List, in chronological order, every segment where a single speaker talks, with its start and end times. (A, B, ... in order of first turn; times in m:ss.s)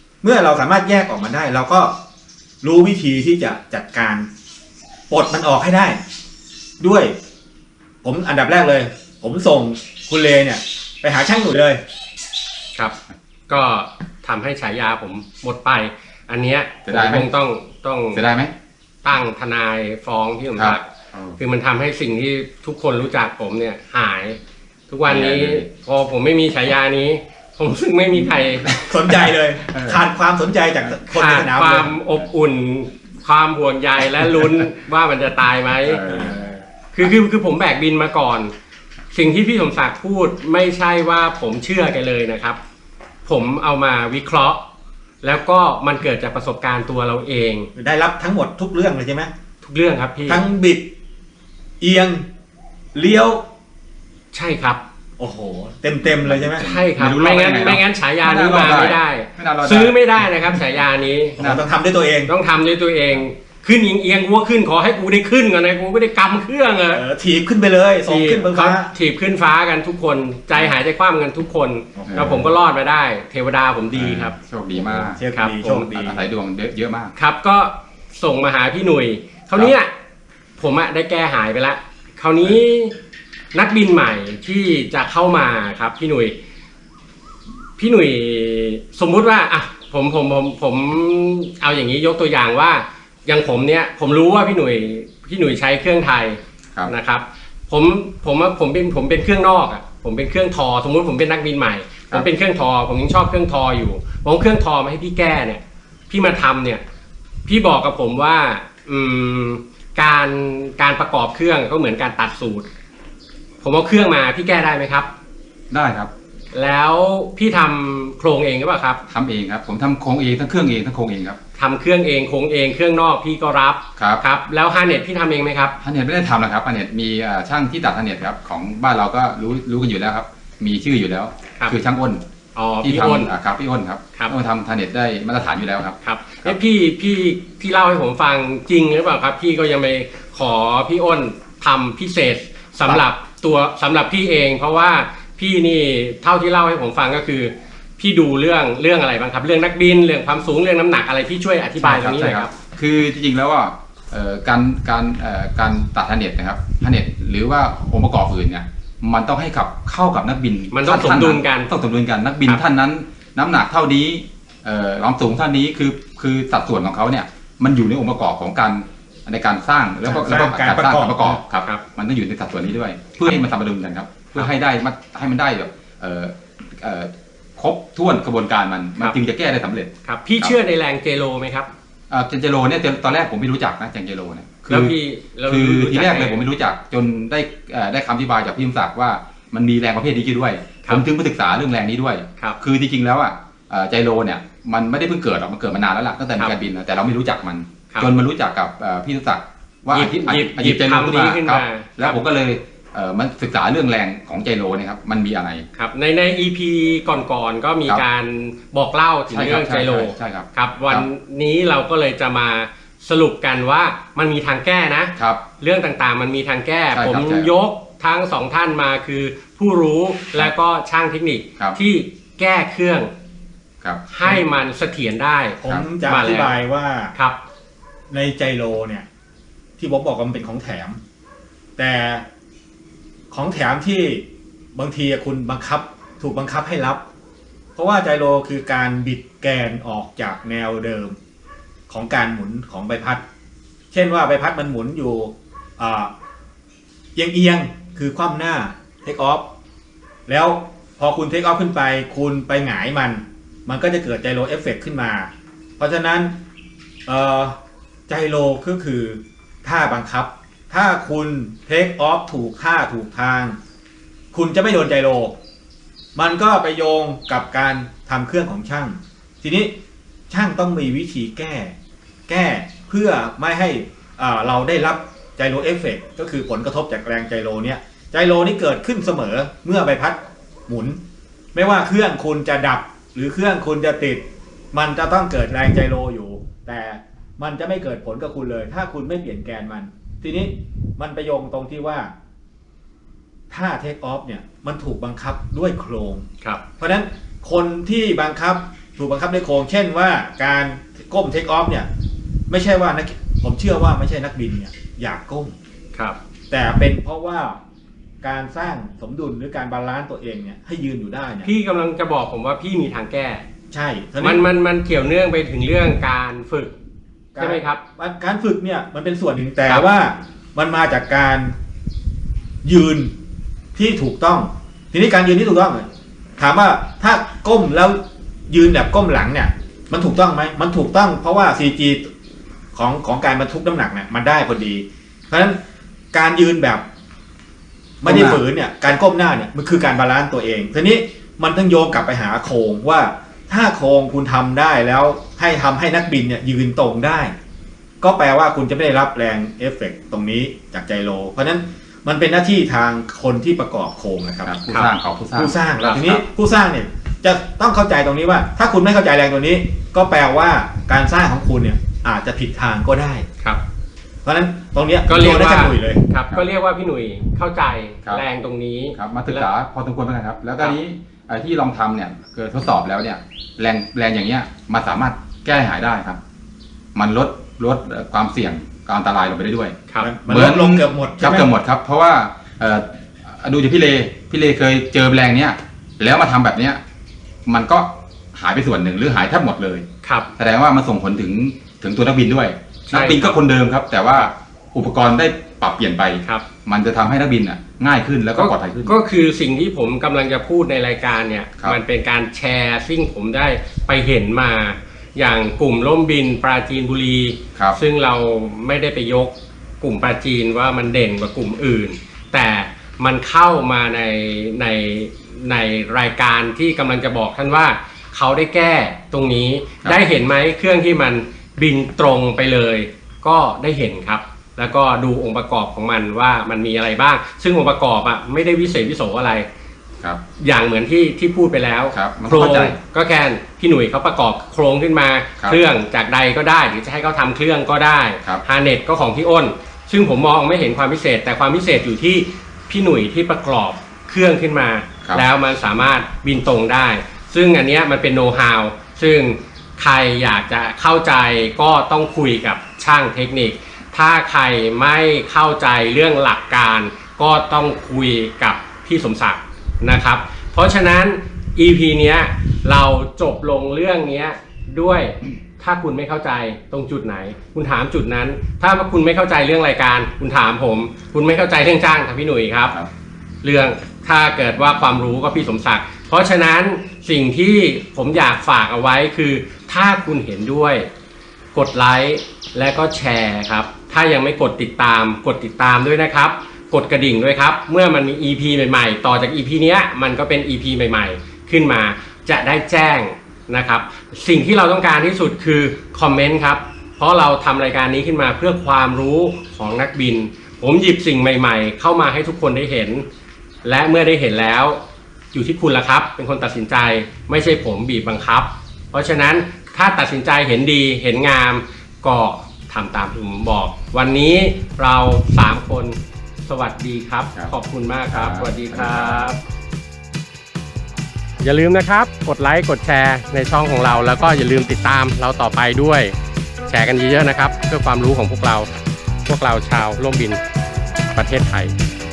0:00.2-0:01.9 A
0:02.6-0:04.3 A
0:05.1-0:06.0 A
0:06.8-0:07.2 A
0:08.0-0:11.8 A
0:13.5-0:18.2 B
0:16.9-0:17.3 C
0:18.1-0:18.5 C
0:19.0-0:20.8 B
0:20.6-0:21.4 C
0:21.4-0:28.7 B
0:25.1-0:25.7 C
0:28.6-0:30.0 C
0:28.7-0:32.0 A
0:31.1-0:36.0 B
0:35.8-0:36.5 C
0:36.1-0:36.6 A
0:36.9-0:38.5 B
0:39.1-0:42.6 B
0:43.2-0:44.6 B
0:45.2-0:47.7 B
0:47.8-0:49.3 A
0:49.6-0:50.4 B
0:50.3-0:50.9 A
0:51.8-0:52.2 A
0:53.0-0:53.4 A
0:54.3-0:54.8 B
0:55.2-0:56.7 A
0:56.1-1:00.6 C
0:56.6-1:01.4 B
1:01.4-1:01.6 C
1:01.4-1:02.3 A
1:02.3-1:07.0 B
1:06.9-1:08.9 A
1:08.1-1:14.4 B
1:12.0-1:12.4 A
1:12.1-1:12.5 C
1:13.9-1:15.2 C
1:14.7-1:16.3 A
1:15.3-1:15.9 B
1:15.8-1:17.1 C
1:17.2-1:19.9 B
1:20.6-1:23.0 B
1:23.5-1:26.3 B
1:27.8-1:46.8 B
1:47.5-1:52.7 B
1:53.6-1:55.1 B
1:55.7-1:56.1 C
1:56.5-1:59.0 B
1:59.1-2:01.4 C
2:01.6-2:05.8 B
2:04.0-2:04.2 C
2:05.8-2:12.2 C
2:12.6-2:13.3 B
2:12.8-2:16.6 C
2:16.0-2:32.5 B
2:31.8-3:00.5 C
2:40.7-2:41.7 B
2:50.0-2:51.4 A
3:00.0-3:01.7 B
3:02.1-3:04.9 C
3:04.7-3:06.4 B
3:05.4-3:25.6 C
3:19.9-3:22.2 B
3:25.8-3:43.1 B
3:29.3-3:31.1 C
3:35.2-3:35.4 C
3:37.0-3:37.5 C
3:43.8-3:44.1 C
3:44.1-3:46.6 B
3:45.6-3:47.1 A
3:48.1-3:49.1 A
3:49.8-3:51.0 A
3:51.8-3:52.2 A
3:53.3-3:57.0 A
3:57.8-4:01.2 A
4:01.9-4:03.2 A
4:03.9-4:06.1 A
4:07.2-4:09.5 A
4:10.3-4:16.4 A
4:17.1-4:17.6 A
4:18.1-4:23.6 A
4:24.3-4:25.4 A
4:26.2-4:29.8 A
4:30.3-4:31.8 A
4:32.3-4:41.0 A
4:41.5-4:52.1 A
4:53.5-4:56.3 A
4:56.8-5:01.9 A
5:02.5-5:05.6 A
5:06.5-5:07.6 A
5:08.2-5:11.5 A
5:11.4-5:13.4 B
5:13.7-5:14.4 A
5:14.2-5:16.8 B
5:17.3-5:21.5 A
5:17.4-5:17.8 B
5:22.6-5:23.1 A
5:23.8-5:25.9 A
5:26.4-5:32.1 A
5:32.7-5:35.6 A
5:36.1-5:36.8 A
5:38.0-5:47.3 A
5:38.0-5:38.4 C
5:48.0-5:54.6 A
5:54.4-5:56.2 C
5:55.4-6:03.3 A
6:04.2-6:06.0 A
6:05.1-6:09.5 B
6:09.0-6:16.2 C
6:17.0-6:19.8 C
6:20.0-6:21.5 A
6:20.3-6:26.8 C
6:27.5-6:29.8 C
6:30.0-6:30.3 B
6:30.4-6:39.0 C
6:32.9-6:33.4 B
6:38.4-7:09.5 B
7:10.4-7:52.8 B
7:11.9-7:12.8 C
7:53.4-8:00.9 B
8:01.6-8:23.0 B
8:23.6-8:24.8 B
8:25.3-8:39.4 B
8:38.1-8:39.3 C
8:41.4-8:46.2 B
8:46.7-8:48.7 B
8:49.3-8:50.4 B
8:51.1-8:51.7 B